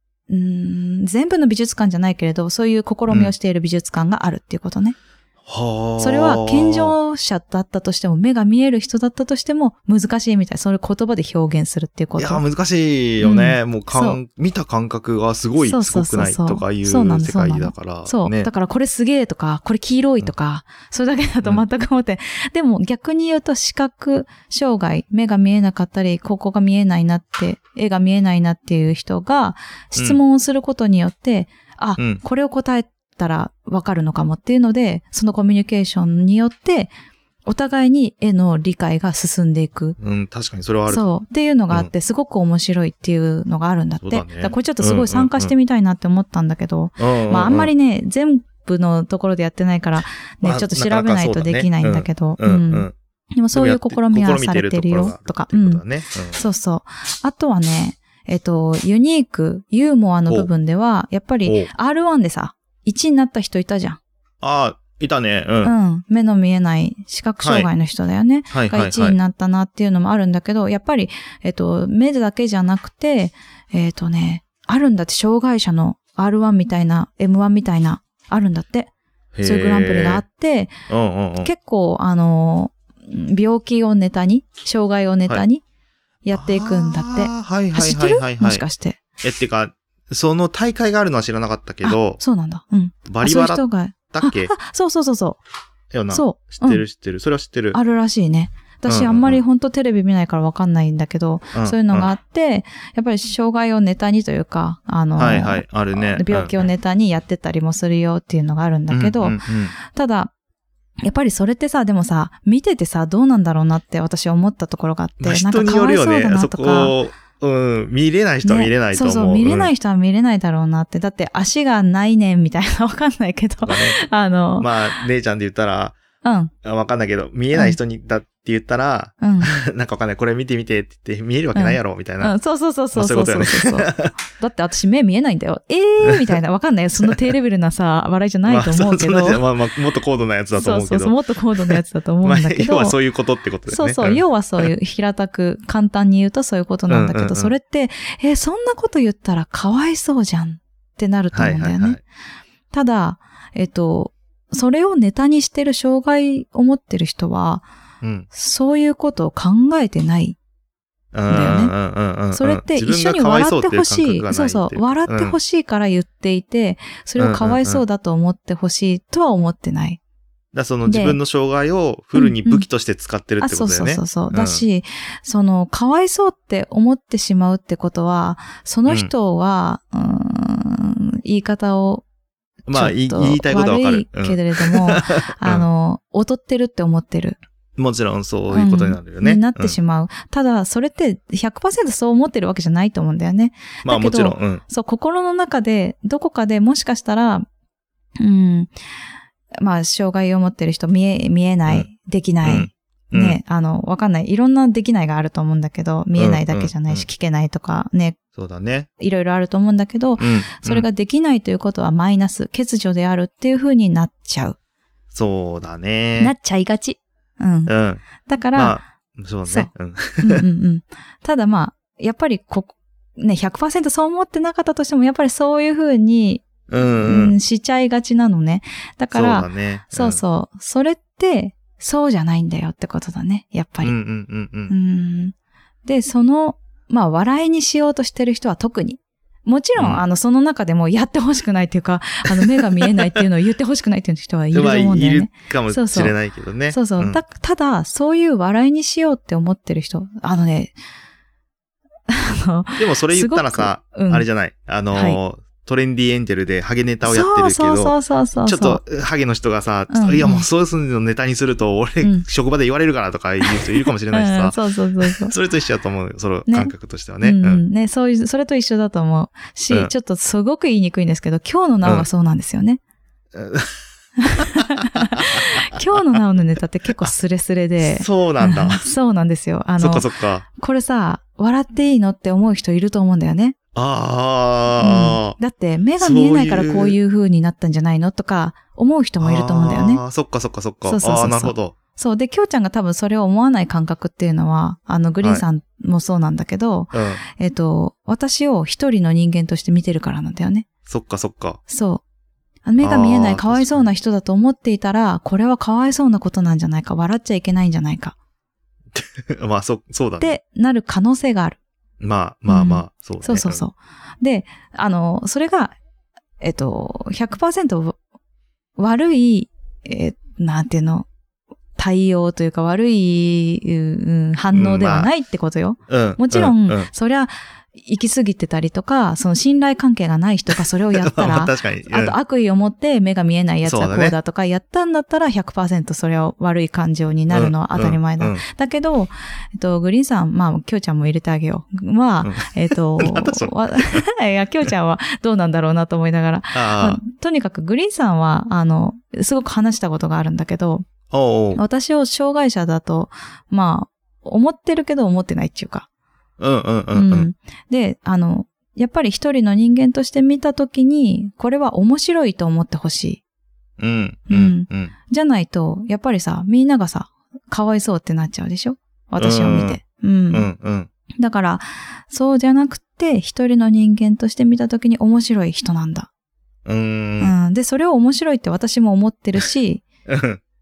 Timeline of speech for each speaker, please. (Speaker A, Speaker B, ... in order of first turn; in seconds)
Speaker A: 0.3-5.0, 6.0-12.4, 13.2-14.2, 15.6-36.9, 37.5-40.0, 40.9-64.0, 65.6-78.9, 79.4-80.7, 81.4-85.6, 86.2-89.0, 91.8-95.4, 96.1-96.8, 97.7-110.3, 111.0-116.9, 118.4-124.7, 126.2-126.5, 127.5-127.8, 129.2-129.6, 131.5-139.4, 140.5-143.0, 143.7-152.0, 152.7-157.6, 158.3-160.4, 161.3-161.7, 162.3-170.0, 170.8-171.2, 172.1-172.7, 173.4-182.0, 182.7-187.4, 188.5-197.4, 198.2-198.7, 199.6-208.2, 209.0-214.6, 216.2-218.8, 219.5-226.4, 227.0-233.9, 234.7-246.1, 246.7-250.7, 252.1-254.3, 254.9-255.2, 257.0-258.8, 259.9-260.5, 262.0-262.2, 263.4-265.3, 266.5-272.8, 274.2-283.6, 284.8-290.0, 290.9-300.7, 301.7-302.0, 302.6-308.1, 310.2-311.6, 312.5-315.7, 316.4-318.0, 318.8-321.1, 321.8-350.9, 351.5-355.9, 356.9-363.2, 364.3-370.5, 371.2-376.1, 377.2-379.8
Speaker B: 5.5-6.9, 12.2-18.5, 40.0-41.1, 44.0-45.5, 47.0-47.7, 50.4-52.9, 53.5-56.4, 61.4-61.7, 64.4-65.7, 67.4-67.7, 68.5-69.2, 79.3-80.2, 80.9-81.5, 86.3-88.6, 89.2-92.2, 93.1-94.5, 95.9-97.8, 98.9-99.4, 101.5-102.1, 105.2-106.5, 108.9-109.7, 115.2-119.7, 123.6-124.0, 124.6-126.0, 126.6-132.3, 132.9-134.1, 138.4-144.7, 146.9-147.5, 151.3-152.0, 158.0-158.3, 161.1-165.4, 167.2-167.8, 170.5-174.6, 182.7-185.6, 187.8-189.8, 193.8-194.6, 202.4-203.4, 206.2-207.1, 208.3-208.9, 210.2-210.8, 215.1-216.3, 217.7-218.0, 218.5-220.4, 226.7-227.3, 229.1-230.2, 233.8-234.7, 239.8-240.0, 242.4-243.2, 244.5-247.2, 252.8-267.6, 273.3-273.7, 277.8-278.9, 279.8-280.4, 283.7-285.4, 286.0-287.0, 289.2-291.7, 296.9-297.2, 300.9-301.6, 302.8-303.9, 308.9-310.4, 312.0-313.6, 324.5-325.1, 325.9-326.9, 330.9-332.1, 333.6-334.1, 337.3-338.4, 342.2-344.0, 346.5-347.0, 351.1-351.6, 356.4-357.3, 363.8-364.9, 369.2-369.8, 370.3-370.9, 376.6-377.3, 380.1-380.4